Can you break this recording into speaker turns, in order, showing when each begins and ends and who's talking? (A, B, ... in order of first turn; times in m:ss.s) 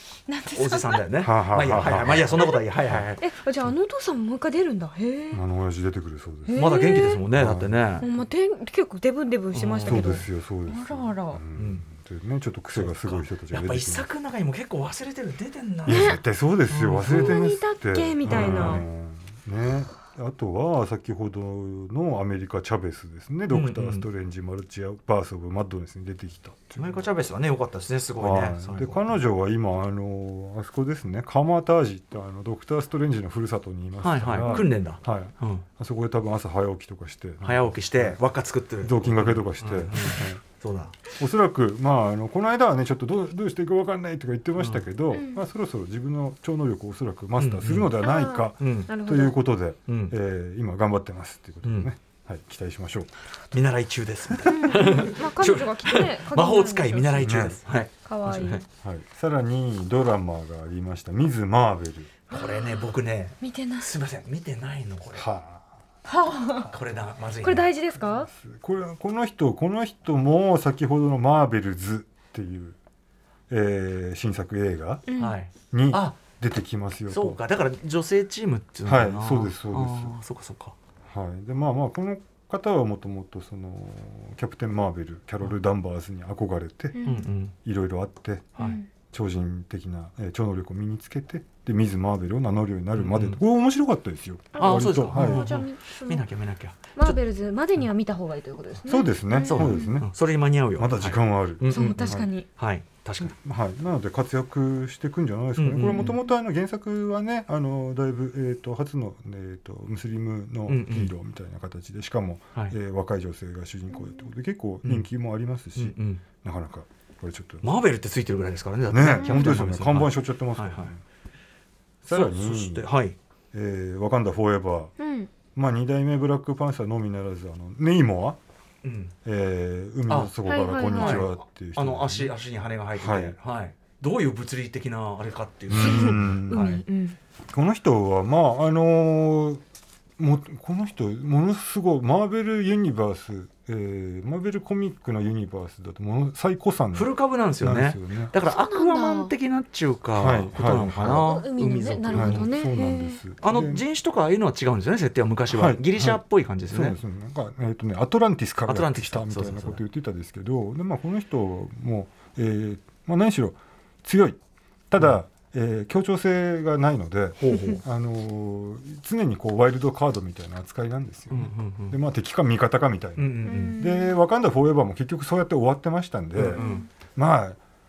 0:00.3-0:01.0 A
0:00.5-0:03.2 B
0:01.2-0:03.0 C
0:02.4-0:02.6 A
0:03.2-0:05.4 A
0:05.3-0:07.8 C
0:06.4-0:07.2 A
0:06.6-0:08.1 B
0:08.0-0:11.4 A
0:09.5-0:10.2 B
0:09.8-0:14.0 C
0:11.5-0:11.8 B
0:12.7-0:16.2 B
0:15.8-0:27.0 C
0:15.9-0:16.2 A
0:16.7-0:17.4 B
0:17.0-0:18.8 A
0:18.2-0:18.8 B
0:23.5-0:24.0 B
0:26.8-0:29.2 B
0:28.2-0:38.2 C
0:34.0-0:35.6 B
0:37.4-0:41.0 B
0:38.8-0:40.4 C
0:41.1-0:53.1 C
0:44.6-0:44.8 B
0:45.1-0:45.4 A
0:47.4-0:47.9 B
0:48.0-0:49.4 A
0:48.6-0:48.9 B
0:49.9-0:50.1 B
0:51.6-0:51.9 B
0:53.5-0:58.6 B
0:54.4-0:57.3 A
0:57.2-0:57.6 C
0:58.0-0:58.6 A
0:58.7-1:02.2 C
1:02.3-1:05.2 B
1:02.3-1:02.9 A
1:03.4-1:03.9 A
1:05.1-1:05.6 C
1:06.0-1:06.7 A
1:06.6-1:07.7 B
1:07.4-1:08.3 A
1:08.3-1:12.8 C
1:13.5-1:15.0 C
1:15.1-1:15.4 A
1:15.2-1:16.2 B
1:15.7-1:17.4 C
1:17.1-1:20.8 B
1:18.8-1:20.1 C
1:21.1-1:27.0 C
1:26.9-1:27.2 A
1:27.0-1:27.5 B
1:27.6-1:28.6 C
1:28.6-1:28.9 A
1:29.1-1:35.5 C
1:33.0-1:33.4 B
1:34.5-1:36.2 A
1:34.6-1:37.2 B
1:37.0-1:39.9 A
1:38.9-1:40.1 C
1:39.4-1:43.3 B
1:40.8-1:42.3 C
1:41.7-1:42.5 A
1:43.2-1:57.7 C
1:45.6-1:46.2 B
1:45.8-1:46.3 A
1:50.7-1:51.1 B
1:55.8-1:56.2 B
1:57.6-2:00.9 B
1:58.9-2:01.0 C
1:59.2-1:59.6 A
2:02.0-2:02.9 C
2:02.1-2:03.2 B
2:03.5-2:04.9 C
2:05.0-2:05.3 A
2:05.5-2:08.4 C
2:08.8-2:09.1 B
2:09.2-2:12.3 C
2:10.4-2:11.2 A
2:10.8-2:16.8 B
2:13.0-2:13.4 C
2:15.7-2:16.7 C
2:15.8-2:17.2 A
2:17.5-2:19.6 C
2:20.2-2:28.3 C
2:26.9-2:32.5 B
2:28.4-2:29.3 A
2:30.2-2:31.3 C
2:31.0-2:33.2 A
2:32.1-2:33.8 C
2:33.4-2:37.0 B
2:35.5-2:44.4 C
2:38.7-2:39.8 B
2:44.9-2:56.6 C
2:47.4-2:47.8 B
2:47.5-2:47.8 A
2:51.3-2:51.9 B
2:53.2-2:53.8 B
2:53.4-2:54.2 A
2:56.3-2:56.8 B
2:56.5-2:56.9 A
2:57.1-2:57.6 C